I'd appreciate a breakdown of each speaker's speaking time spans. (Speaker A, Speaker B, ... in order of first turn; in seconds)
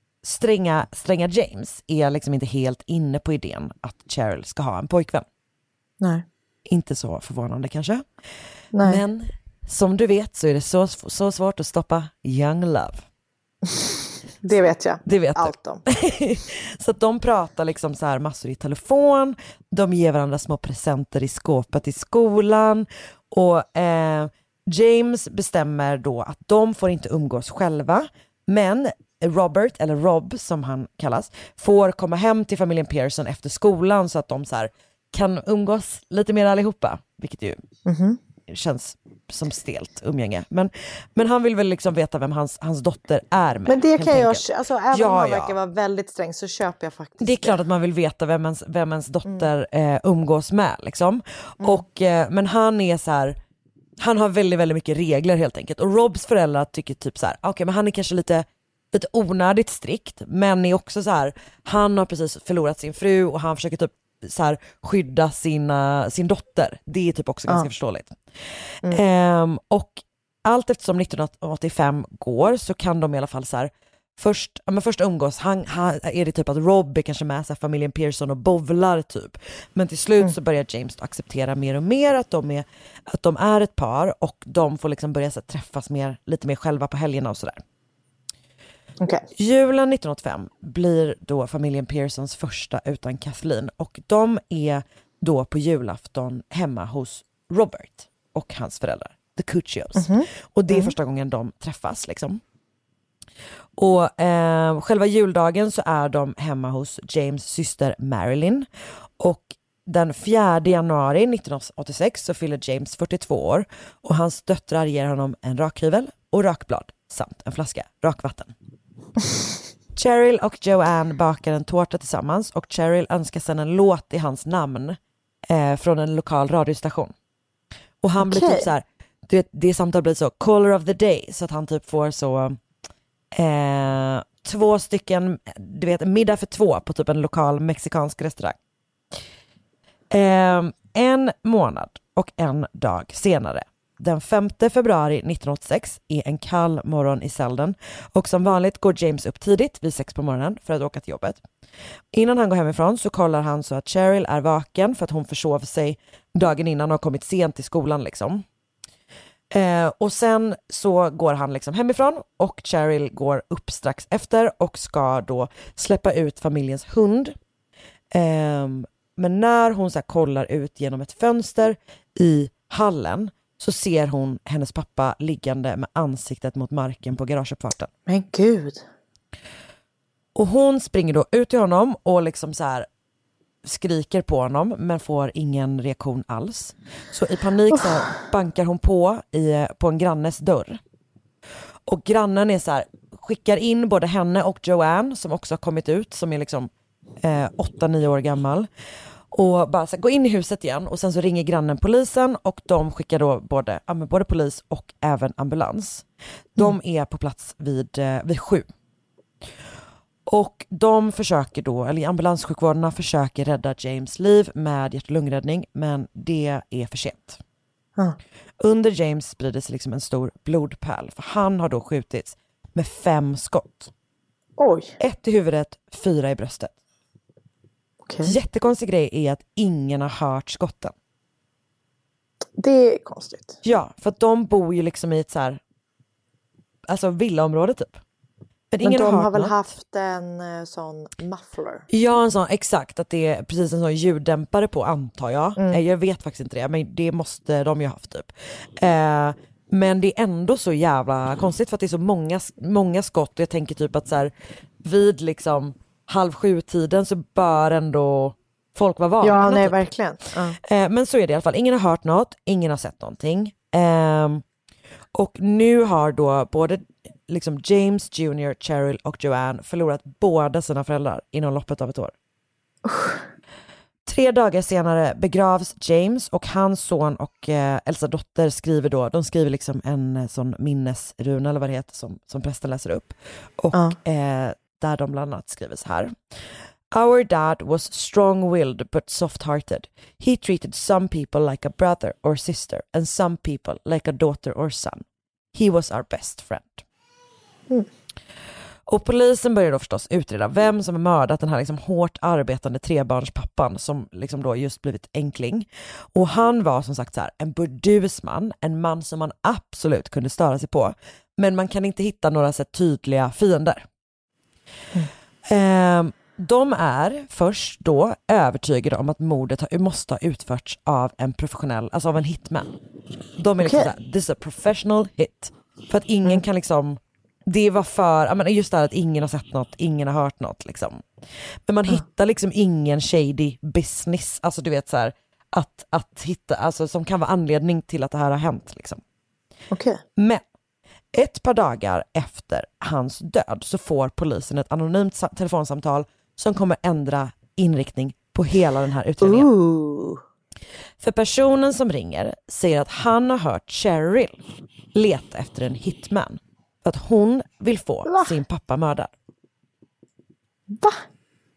Speaker A: 0.2-5.2, 6.7-8.1, 8.8-13.0, 15.0-37.6, 38.5-45.5, 47.2-53.4, 54.0-68.2, 68.9-87.6, 89.3-102.4, 103.8-108.7, 109.2-118.5, 119.9-127.1, 128.0-132.6, 133.3-138.6, 140.1-151.4, 152.1-158.4, 159.5-167.3, 168.1-177.9, 180.3-182.9, 183.6-190.8, 191.8-198.7, 199.3-208.7, 210.3-217.4, 218.6-223.9, 225.0-226.7, 228.2-230.9, 233.6-235.6, 236.9-238.0, 238.7-239.6, 241.9-259.8, 260.6-264.4, 265.1-272.1, 274.1-286.2, 286.9-295.0, 295.5-296.8, 298.9-313.9, 315.5-322.7, 323.4-331.0, 331.7-339.0, 340.2-340.4, 341.1-349.5, 351.0-354.4, 354.9-359.1
Speaker B: 8.7-9.0, 14.4-15.8, 37.9-38.2, 43.7-47.6, 100.0-100.9, 128.2-128.7, 178.1-178.8, 224.6-224.9, 228.1-228.3, 232.6-233.6, 238.8-241.8, 259.2-260.6, 272.8-273.2, 323.6-323.9, 339.7-340.0, 349.2-350.2, 358.1-358.3, 360.7-361.0